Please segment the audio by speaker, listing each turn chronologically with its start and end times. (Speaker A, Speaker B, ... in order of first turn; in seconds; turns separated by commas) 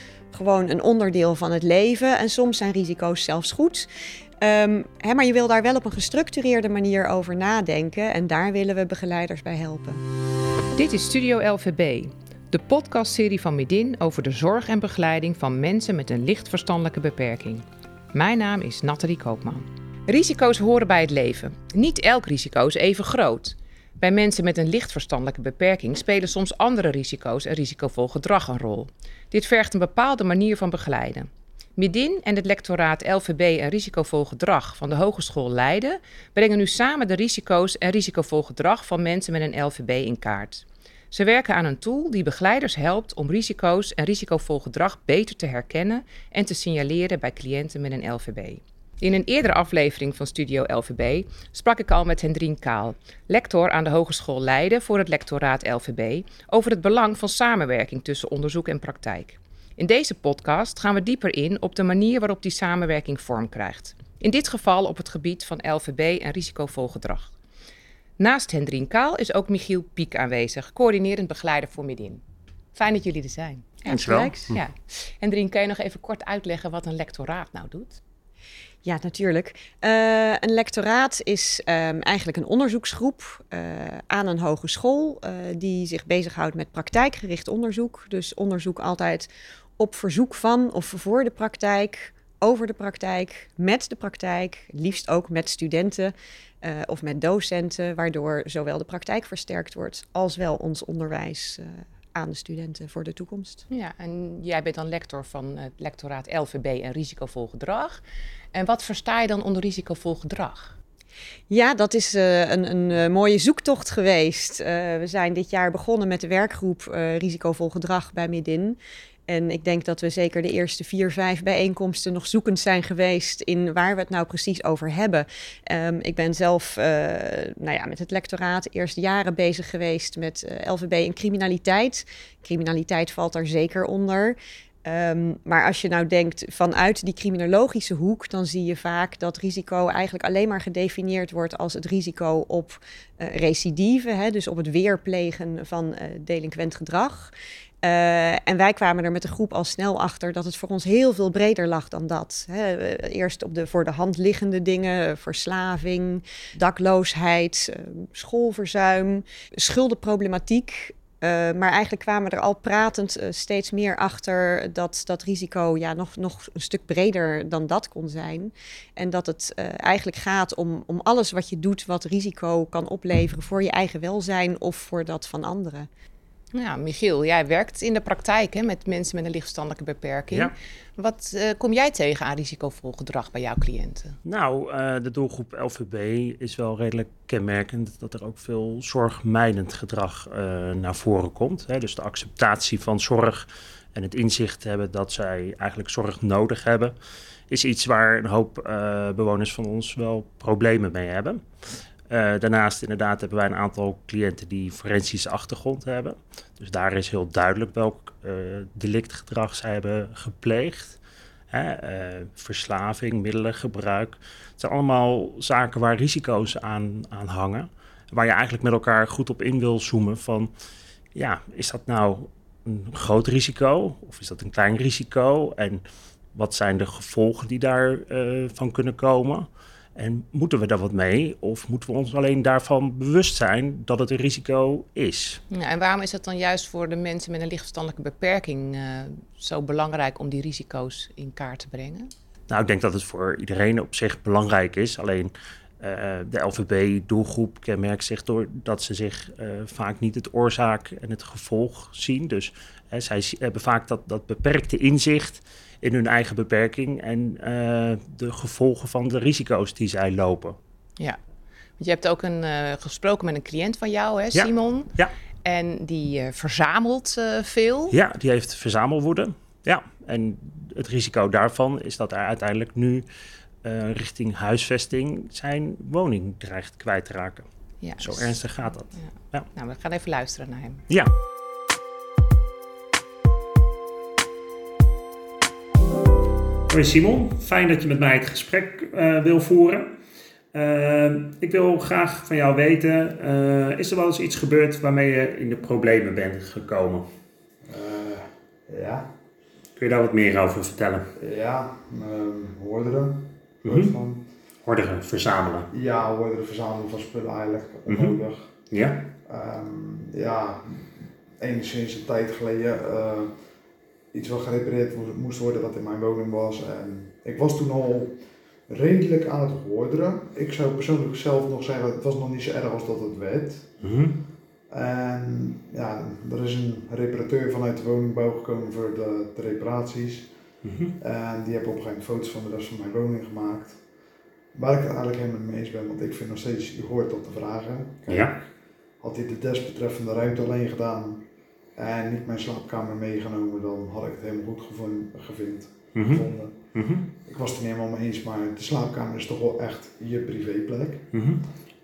Speaker A: 0.3-3.9, Speaker A: 4.4-10.0, Speaker B: 10.8-67.3, Speaker B: 68.2-72.2, Speaker B: 72.7-78.0, Speaker C: 73.9-74.6, Speaker A: 73.9-74.5, Speaker A: 78.8-103.7, Speaker B: 103.7-108.0, Speaker B: 108.5-110.7, Speaker A: 111.5-175.9, Speaker B: 176.5-184.2, Speaker C: 184.2-196.9, Speaker C: 197.5-201.4, Speaker C: 202.1-211.0, Speaker C: 211.5-220.5, Speaker C: 221.2-225.8, Speaker C: 226.3-235.4, Speaker B: 235.5-242.1, Speaker C: 242.5-260.6, Speaker B: 261.8-264.9, Speaker C: 264.3-265.1, Speaker B: 265.4-268.0, Speaker C: 267.9-273.1, Speaker C: 273.6-277.5, Speaker B: 277.8-278.4, Speaker C: 278.0-279.5, Speaker B: 278.9-280.9, Speaker C: 286.7-289.9, Speaker C: 290.5-297.1, Speaker D: 297.6-299.1, Speaker C: 299.8-301.1, Speaker D: 301.2-304.3, Speaker C: 303.6-303.9, Speaker C: 304.6-305.7, Speaker D: 305.7-308.6, Speaker C: 307.9-308.2, Speaker C: 308.7-309.1, Speaker D: 309.2-313.3, Speaker D: 314.1-318.2, Speaker D: 318.7-323.7, Speaker C: 323.8-324.2, Speaker D: 324.7-330.3, Speaker C: 330.6-331.0, Speaker D: 331.0-333.8, Speaker D: 334.5-338.4, Speaker C: 338.1-338.4, Speaker D: 339.0-341.2, Speaker D: 341.8-346.6, Speaker C: 345.9-347.1, Speaker D: 347.2-351.1, Speaker C: 351.1-351.5